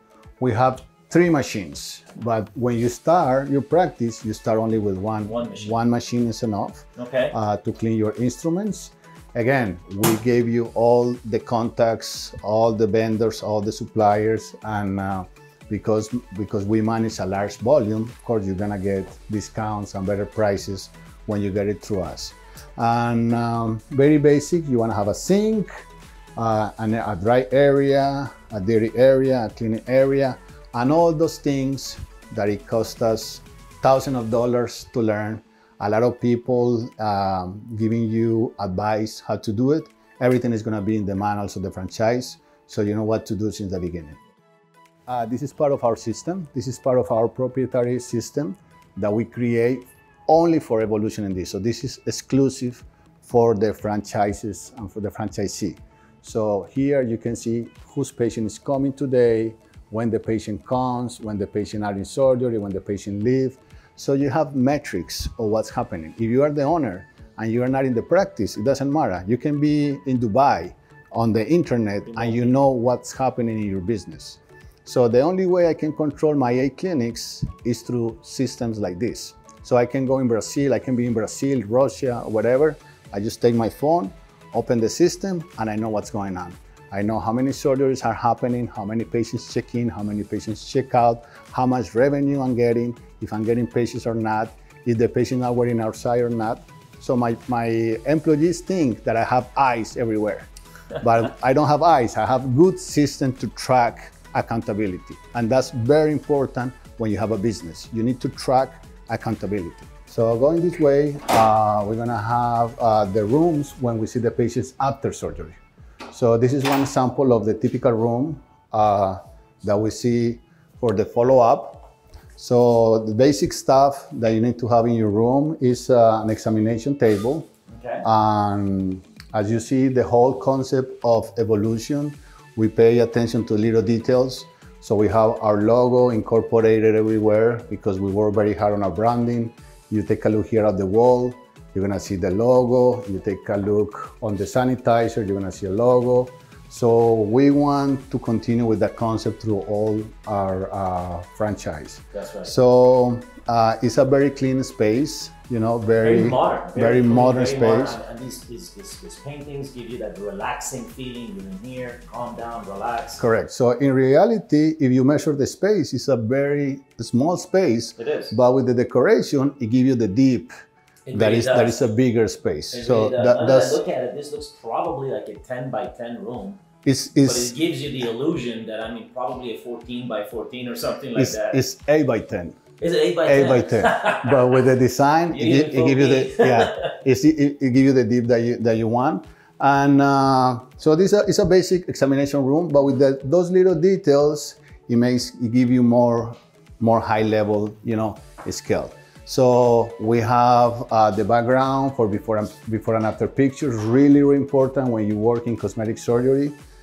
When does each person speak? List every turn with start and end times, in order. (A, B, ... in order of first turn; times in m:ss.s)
0:00.4-0:25.7 A
0:05.2-0:05.8 B
0:07.0-0:07.4 B
0:26.4-0:44.2 A
0:45.1-1:55.6 A
1:12.1-1:12.5 B
1:56.1-2:07.5 A
2:07.7-2:08.0 B
2:08.0-2:38.0 A
2:32.1-2:32.5 B
2:36.0-2:43.2 B
2:43.2-2:50.5 A
2:48.0-2:48.3 B
2:51.1-2:51.9 B
2:51.1-2:53.8 A
2:52.7-2:56.6 B
2:56.8-2:57.5 A
2:57.2-3:01.6 B
3:01.2-3:02.6 A
3:02.8-3:04.6 B
3:03.2-3:26.6 A
3:05.3-3:06.9 B